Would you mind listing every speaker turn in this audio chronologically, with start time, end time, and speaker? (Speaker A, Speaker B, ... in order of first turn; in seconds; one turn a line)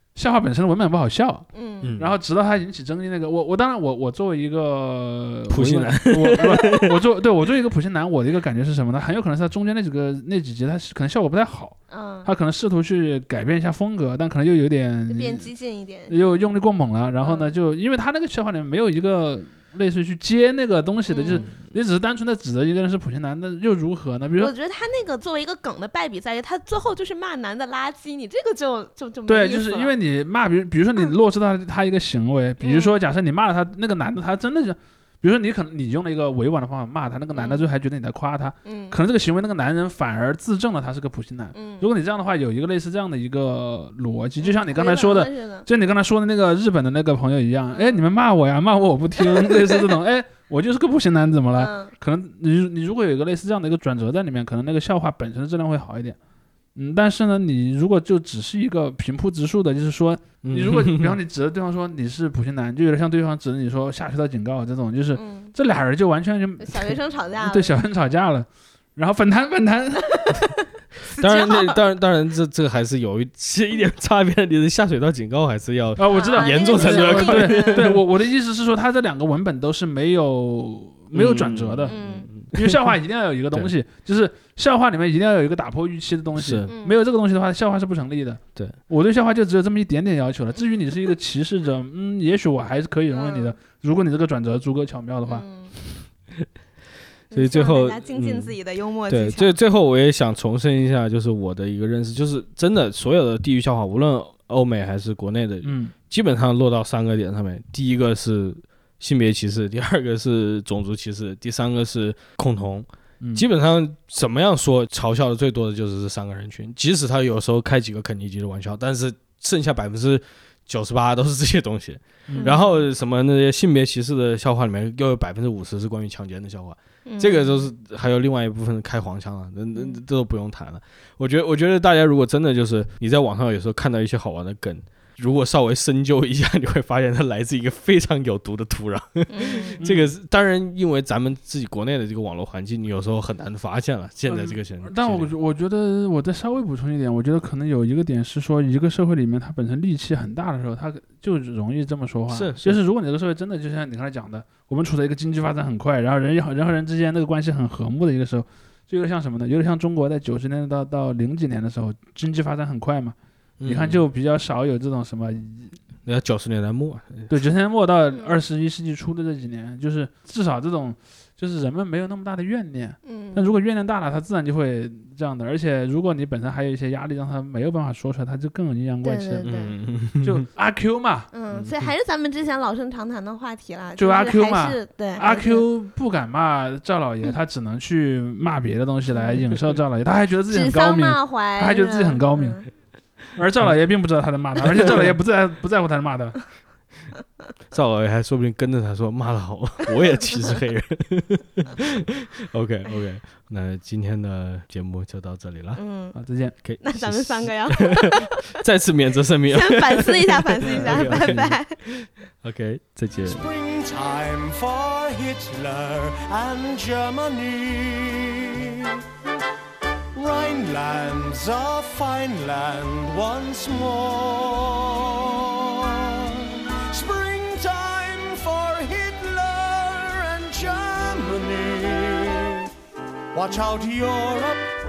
Speaker A: 0.2-15.5
Speaker B: 1.5-1.9
Speaker C: 1.8-2.1
Speaker C: 5.5-6.9
Speaker B: 11.9-12.3
Speaker B: 15.1-16.2
Speaker A: 16.1-24.5
Speaker B: 17.2-17.5
Speaker B: 21.1-21.5
Speaker B: 24.4-29.9
Speaker A: 29.3-56.2
Speaker B: 32.6-33.0
Speaker B: 37.3-37.7
Speaker B: 38.6-39.0
Speaker B: 41.5-41.9
Speaker B: 44.4-45.7
Speaker B: 47.7-48.0
Speaker B: 49.2-50.0
Speaker B: 51.6-51.9
Speaker A: 56.8-70.4
Speaker C: 60.4-61.2
Speaker B: 65.1-65.5
Speaker B: 66.6-67.7
Speaker B: 70.0-71.8
Speaker C: 71.2-78.0
Speaker A: 76.0-82.0
Speaker B: 76.1-77.9
Speaker C: 81.1-82.9
Speaker B: 81.9-82.3
Speaker A: 82.5-95.5
Speaker C: 86.4-86.7
Speaker B: 86.7-87.0
Speaker B: 93.1-93.6
Speaker B: 95.3-95.7
Speaker B: 97.3-99.5
Speaker C: 97.3-98.5
Speaker C: 99.1-145.3
Speaker A: 105.6-105.9
Speaker A: 122.3-122.6
Speaker B: 122.3-122.8
Speaker B: 127.1-127.6
Speaker B: 139.3-139.8
Speaker A: 139.8-140.1
Speaker A: 144.3-165.7
Speaker C: 152.3-152.8
Speaker C: 163.6-164.0
Speaker C: 166.1-167.3
Speaker A: 167.3-179.5
Speaker B: 168.1-168.4
Speaker B: 173.1-173.5
Speaker B: 179.0-179.8
Speaker C: 179.4-180.4
Speaker A: 180.2-181.3
Speaker B: 181.3-185.6
Speaker C: 181.5-181.9
Speaker A: 184.0-192.6
Speaker B: 189.1-189.4
Speaker B: 190.5-192.7
Speaker A: 193.4-196.4
Speaker C: 194.6-195.1
Speaker C: 197.7-205.8
Speaker B: 205.8-206.2
Speaker A: 206.2-206.5
Speaker C: 206.6-213.4
Speaker B: 206.8-208.5
Speaker B: 209.5-211.8
Speaker D: 213.3-219.0
Speaker D: 220.2-232.7
Speaker D: 233.3-234.7